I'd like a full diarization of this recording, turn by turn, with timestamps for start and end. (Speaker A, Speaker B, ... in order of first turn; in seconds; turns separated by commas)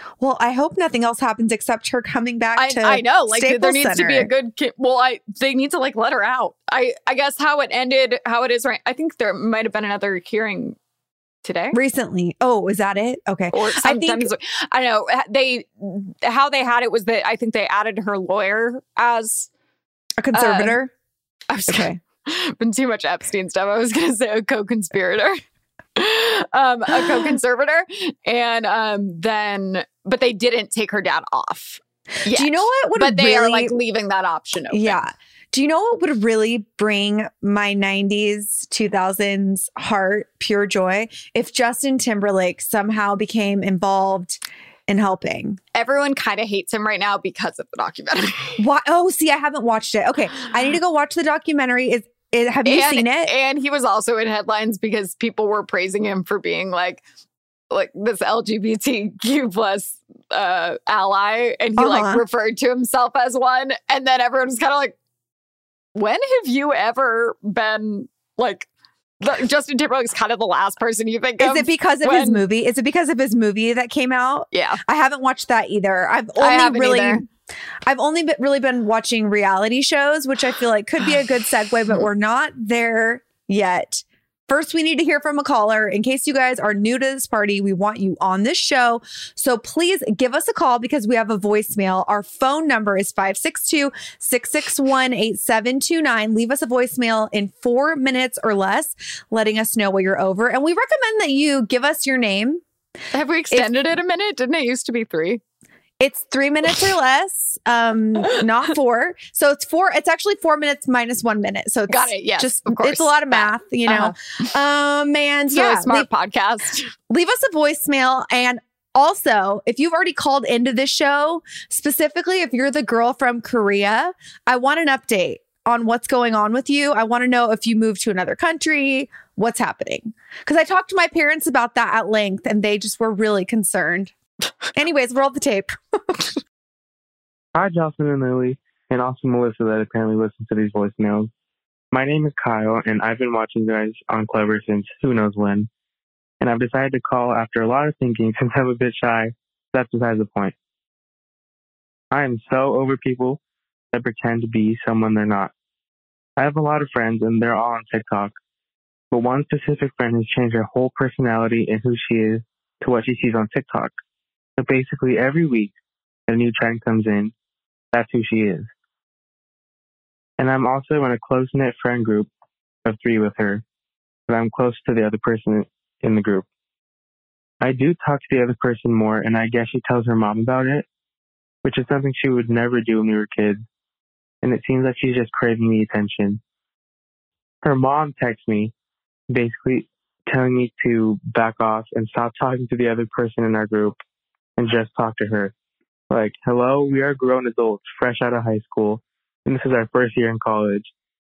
Speaker A: 0.2-4.3, Speaker B: 2.6-10.8, Speaker B: 11.4-11.8, Speaker A: 11.7-14.3, Speaker B: 13.5-19.5, Speaker A: 20.2-20.9, Speaker B: 20.3-20.8, Speaker B: 21.5-25.4, Speaker A: 21.7-22.0, Speaker B: 26.0-35.0, Speaker A: 32.3-33.7, Speaker A: 34.7-45.6, Speaker B: 45.8-48.6, Speaker A: 48.6-53.3, Speaker B: 52.6-57.0, Speaker B: 57.7-65.0, Speaker A: 61.8-62.2, Speaker B: 66.0-68.7, Speaker B: 69.2-72.4, Speaker A: 71.4-77.2, Speaker B: 74.5-74.8, Speaker B: 76.4-77.2, Speaker A: 77.9-102.6, Speaker B: 103.1-105.4, Speaker A: 106.0-116.1, Speaker B: 111.9-114.2, Speaker B: 115.5-116.9, Speaker A: 117.1-134.1, Speaker A: 134.8-136.3, Speaker C: 137.6-141.3, Speaker C: 141.9-145.7, Speaker C: 146.4-150.5, Speaker C: 152.1-153.4, Speaker C: 153.9-155.5, Speaker C: 156.4-158.3, Speaker C: 159.1-163.9, Speaker C: 164.6-165.8, Speaker C: 166.3-167.3, Speaker C: 167.9-168.7, Speaker C: 170.4-172.3, Speaker C: 172.8-173.6, Speaker C: 174.3-176.5, Speaker C: 177.6-180.8, Speaker C: 181.6-183.6, Speaker C: 184.4-186.4, Speaker C: 187.6-188.7, Speaker C: 189.3-194.0, Speaker C: 194.6-195.5, Speaker C: 196.1-200.9